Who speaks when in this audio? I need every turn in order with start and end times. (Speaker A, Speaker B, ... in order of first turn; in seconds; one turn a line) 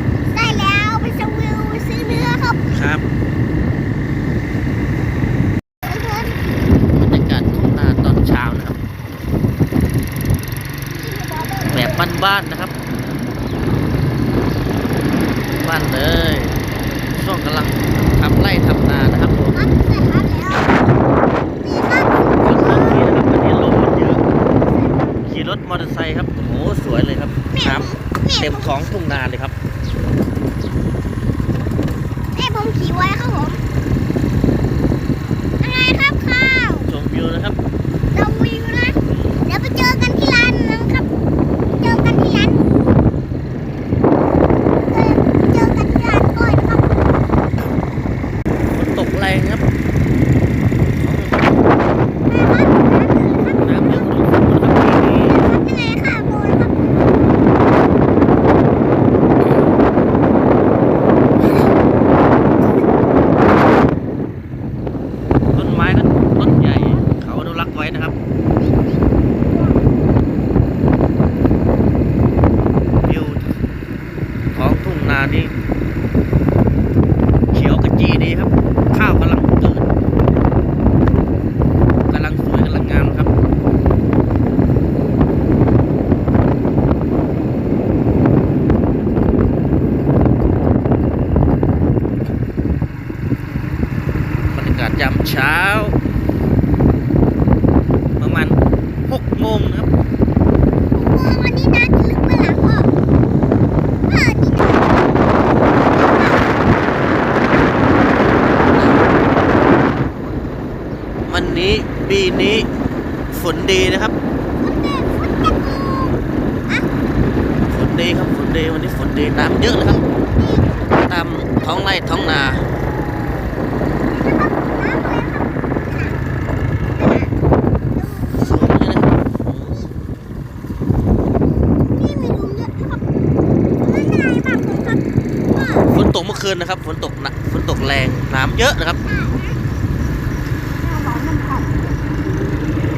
Speaker A: 0.3-2.6
Speaker B: 2.7-3.1
Speaker A: 5.8-6.7
Speaker B: 6.9-8.8
Speaker A: 11.0-12.0
Speaker B: 11.7-12.8
Speaker B: 15.6-16.6
Speaker B: 17.1-19.6
Speaker A: 19.5-20.8
Speaker A: 21.6-23.1
Speaker B: 22.4-24.2
Speaker A: 24.6-25.1
Speaker B: 25.2-29.6
Speaker A: 27.5-29.0
Speaker A: 32.3-33.6
Speaker A: 35.6-36.9
Speaker B: 36.9-37.6
Speaker A: 38.1-41.1
Speaker B: 39.0-39.4
Speaker A: 41.8-42.7
Speaker A: 44.9-47.0
Speaker B: 48.7-49.6
Speaker B: 51.0-51.4
Speaker A: 52.3-54.1
Speaker B: 53.5-55.4
Speaker A: 55.1-57.0
Speaker B: 65.5-68.2
Speaker A: 66.5-67.1
Speaker A: 68.6-69.8
Speaker B: 73.1-73.4
Speaker B: 74.5-75.5
Speaker B: 77.5-79.9
Speaker B: 82.1-83.3
Speaker B: 94.5-96.0
Speaker B: 98.2-99.9
Speaker A: 100.9-102.9
Speaker A: 104.1-105.1
Speaker B: 111.3-112.7
Speaker B: 113.3-114.1
Speaker A: 114.6-116.9
Speaker B: 117.7-120.0
Speaker A: 119.9-121.0
Speaker B: 121.0-122.7
Speaker A: 124.1-126.2
Speaker A: 127.0-127.3
Speaker A: 127.9-128.7
Speaker B: 128.3-129.8
Speaker A: 131.8-133.0
Speaker A: 133.8-136.0
Speaker B: 135.9-139.0
Speaker A: 139.0-139.6